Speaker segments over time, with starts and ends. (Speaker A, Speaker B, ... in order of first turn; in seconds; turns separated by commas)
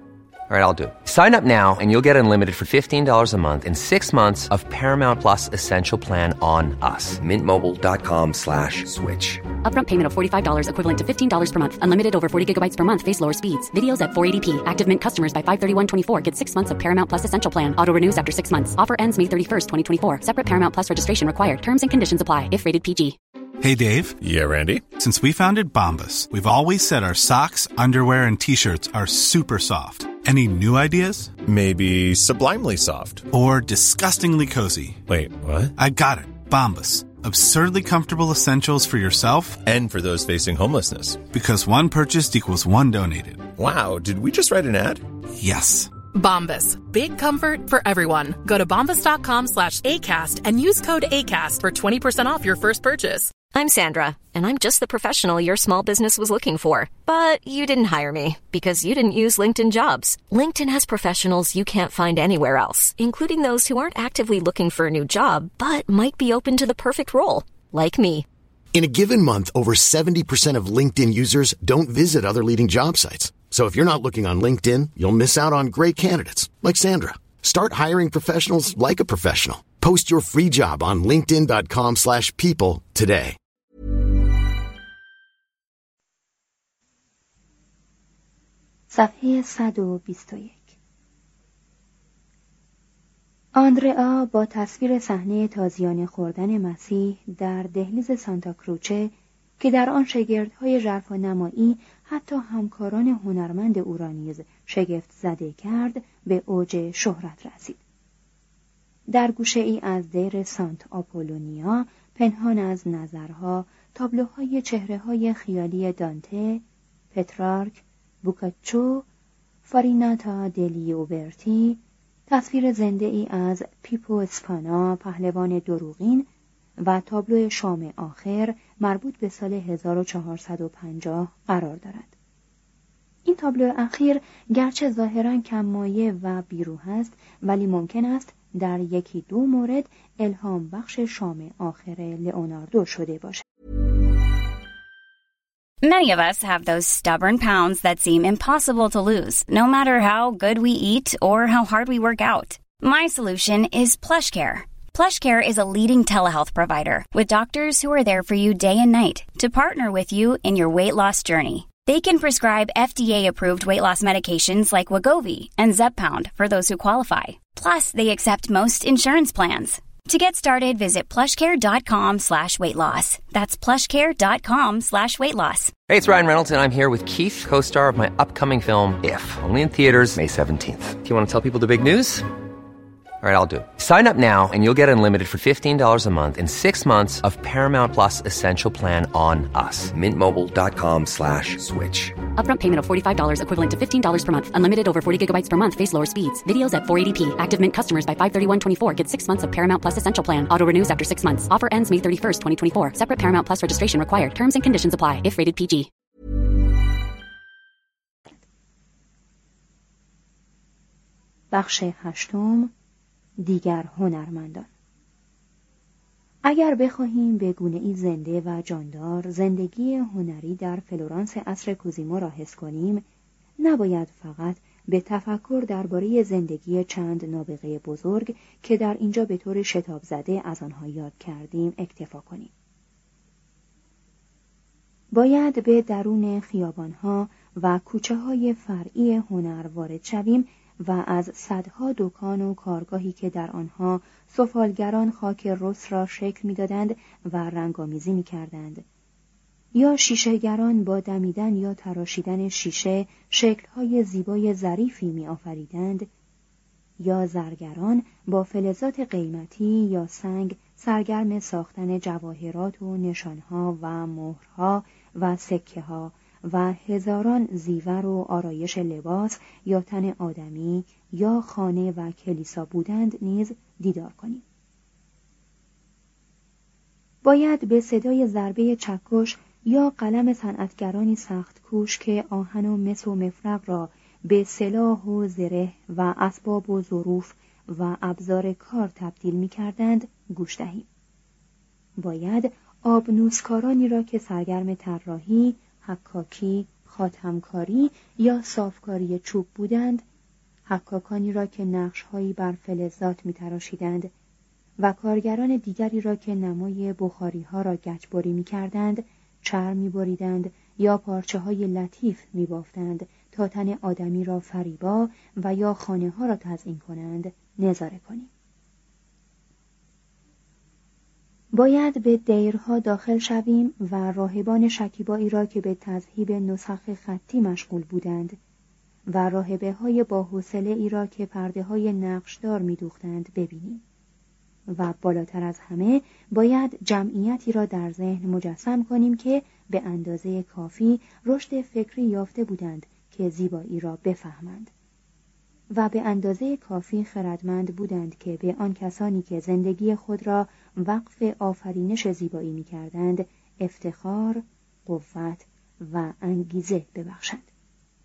Speaker A: 0.5-9.4, Speaker B: 9.6-23.2, Speaker C: 23.6-24.2, Speaker D: 24.2-24.8, Speaker C: 25.0-31.3, Speaker D: 31.4-33.2, Speaker C: 33.3-35.0, Speaker D: 35.1-35.7, Speaker C: 35.8-39.6, Speaker D: 39.6-41.2, Speaker C: 41.3-43.5, Speaker D: 43.6-45.0, Speaker C: 45.4-45.9, Speaker E: 46.1-53.3, Speaker F: 53.5-68.2, Speaker G: 68.7-83.4, Speaker H: 88.9-90.8, Speaker H: 93.5-107.8, Speaker H: 109.1-119.0, Speaker H: 119.7-132.1, Speaker H: 133.3-143.4, Speaker I: 145.8-175.7, Speaker A: 175.9-182.3, Speaker A: 183.2-192.2, Speaker B: 192.4-205.9, Speaker H: 211.5-212.7, Speaker H: 213.4-214.7, Speaker H: 216.4-223.0, Speaker H: 223.6-232.5, Speaker H: 235.1-248.8, Speaker H: 249.8-256.1, Speaker H: 257.0-274.4, Speaker H: 277.2-290.9, Speaker H: 292.0-300.1, Speaker H: 300.7-304.1, Speaker H: 304.8-318.3, Speaker H: 321.5-328.4, Speaker H: 329.1-333.8, Speaker H: 334.7-344.7, Speaker H: 345.7-357.5